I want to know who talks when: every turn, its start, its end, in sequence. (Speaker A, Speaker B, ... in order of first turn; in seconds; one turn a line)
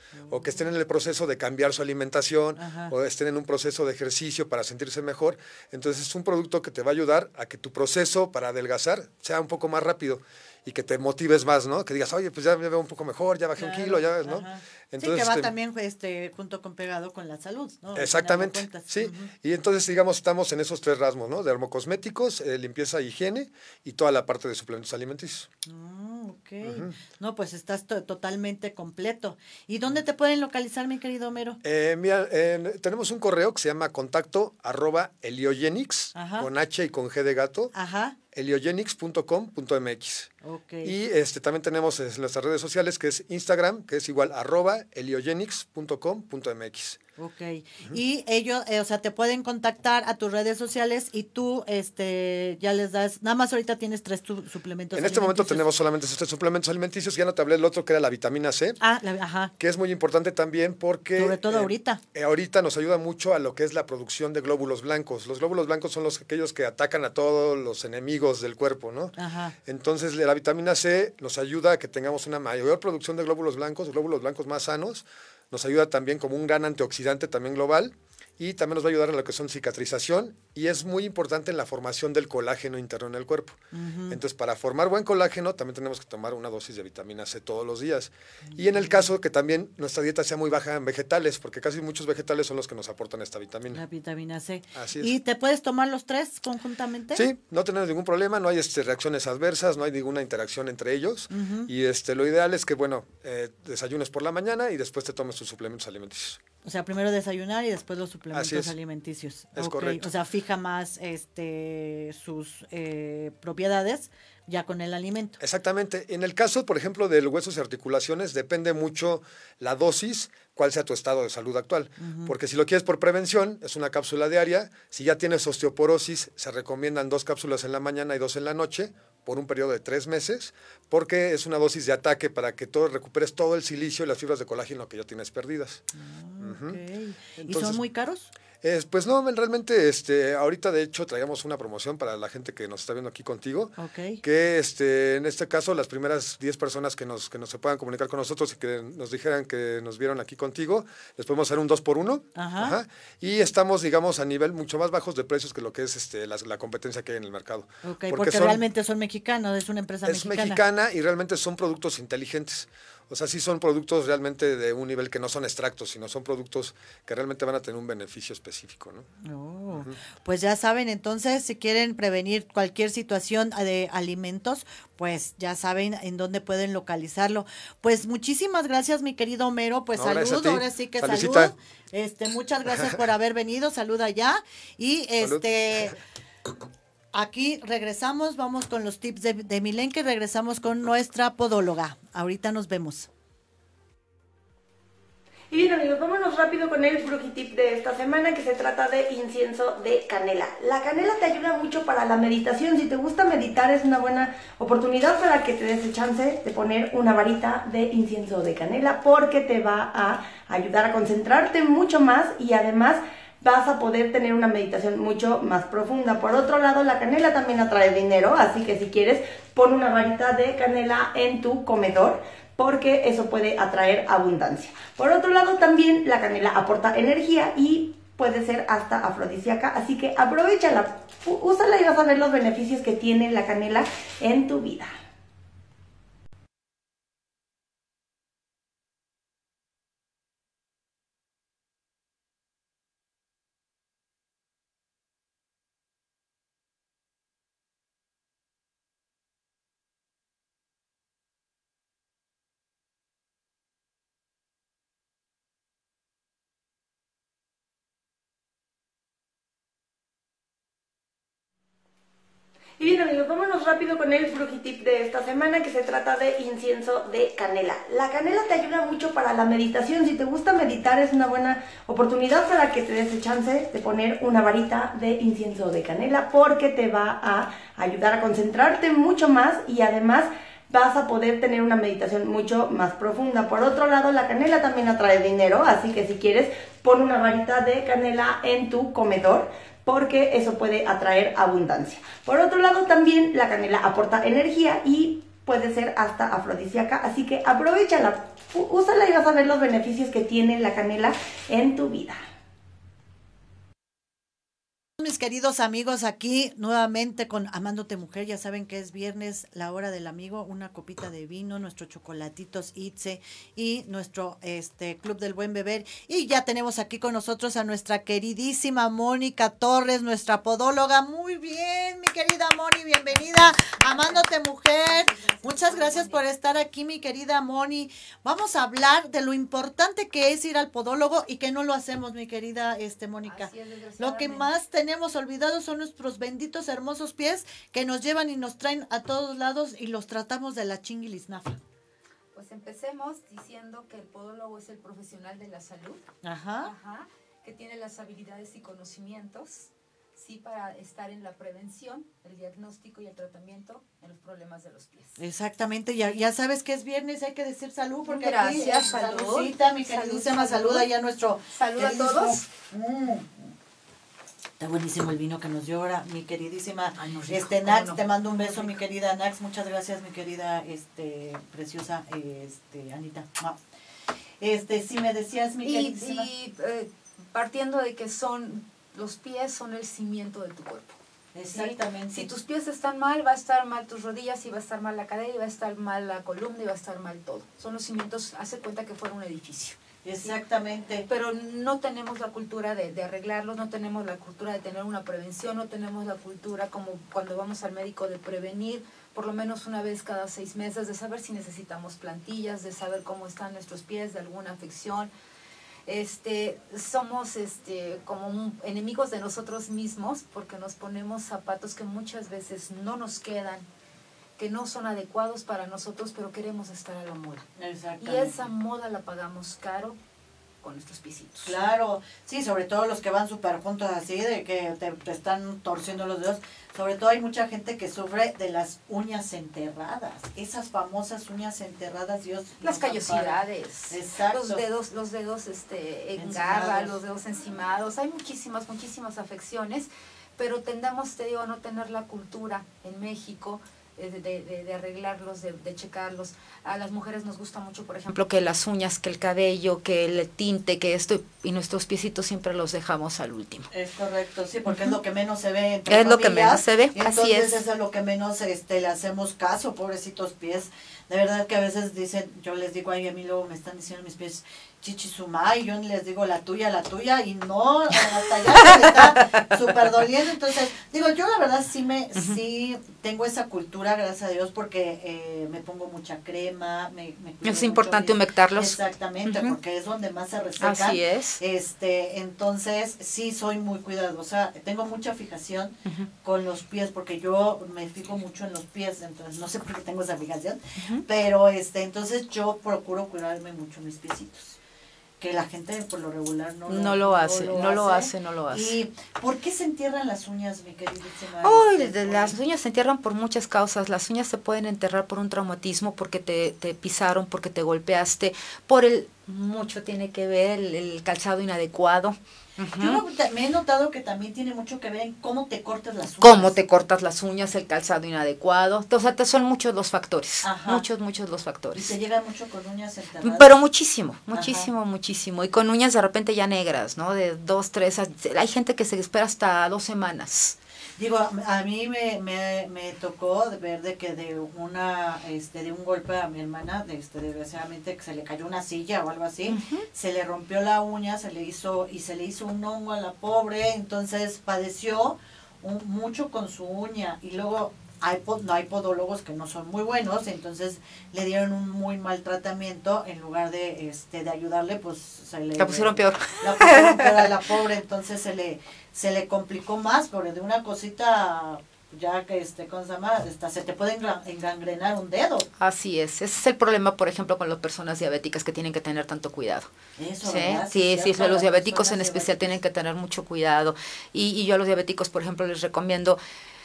Speaker A: 0.1-0.6
Speaker B: 0.3-15.5
Speaker A: 2.5-2.9
Speaker A: 13.6-19.3
Speaker B: 17.9-25.5
Speaker A: 25.6-31.6
Speaker B: 26.6-26.9
Speaker B: 31.6-37.7
Speaker A: 36.1-36.5
Speaker A: 37.7-38.2
Speaker B: 38.3-40.3
Speaker A: 40.4-40.9
Speaker B: 40.8-47.0
Speaker A: 47.2-55.7
Speaker B: 54.9-58.8
Speaker A: 58.8-59.5
Speaker B: 59.6-69.1
Speaker A: 61.1-62.0
Speaker A: 69.2-69.5
Speaker B: 69.7-93.8
Speaker A: 83.7-84.2
Speaker A: 88.5-89.0
Speaker A: 93.7-97.2
Speaker B: 94.8-95.1
Speaker B: 97.1-106.4
Speaker A: 101.3-101.7
Speaker A: 106.6-115.4
Speaker B: 108.3-108.7
Speaker B: 109.5-110.1
Speaker B: 115.4-135.8
Speaker A: 122.0-122.3
Speaker A: 135.9-138.3
Speaker B: 136.4-136.8
Speaker B: 137.4-137.8
Speaker B: 138.6-158.6
Speaker A: 143.8-144.2
Speaker A: 152.3-152.8
Speaker A: 157.8-160.6
Speaker B: 160.1-169.1
Speaker A: 169.2-185.9
Speaker B: 179.9-181.5
Speaker B: 185.2-185.9
Speaker A: 187.1-193.1
Speaker C: 195.5-234.9
Speaker C: 262.8-302.2
Speaker A: 305.0-341.6
Speaker D: 323.1-324.2
Speaker D: 324.8-326.2
Speaker D: 333.2-334.5
Speaker D: 342.3-346.0
Speaker A: 346.2-346.7
Speaker D: 346.6-355.2
Speaker A: 355.2-363.3
Speaker D: 358.1-360.9
Speaker D: 361.5-362.4
Speaker A: 364.6-373.6
Speaker D: 367.0-368.8
Speaker A: 374.4-376.3
Speaker D: 375.6-380.9
Speaker A: 381.3-382.3
Speaker D: 381.5-390.4
Speaker A: 390.0-391.1
Speaker D: 391.1-405.1
Speaker D: 405.9-413.7
Speaker D: 414.4-417.4
Speaker A: 417.6-418.4
Speaker D: 418.0-420.0
Speaker D: 420.6-421.6
Speaker A: 421.4-434.6
Speaker D: 432.6-453.7
Speaker A: 436.2-437.0
Speaker A: 453.7-494.6
Speaker D: 455.9-457.5
Speaker D: 468.6-469.4
Speaker D: 477.4-479.5
Speaker D: 480.6-481.4
Speaker D: 490.8-491.0
Speaker A: 495.2-502.4
Speaker D: 496.7-498.7
Speaker D: 501.4-513.0
Speaker A: 512.8-516.6
Speaker D: 516.2-521.9
Speaker A: 520.4-520.8
Speaker A: 521.7-523.6
Speaker D: 523.2-530.5
Speaker A: 524.3-524.7
Speaker A: 531.0-565.5
Speaker D: 539.5-539.8
Speaker D: 555.6-557.3
Speaker D: 565.6-569.7
Speaker A: 570.0-572.6
Speaker D: 570.2-576.2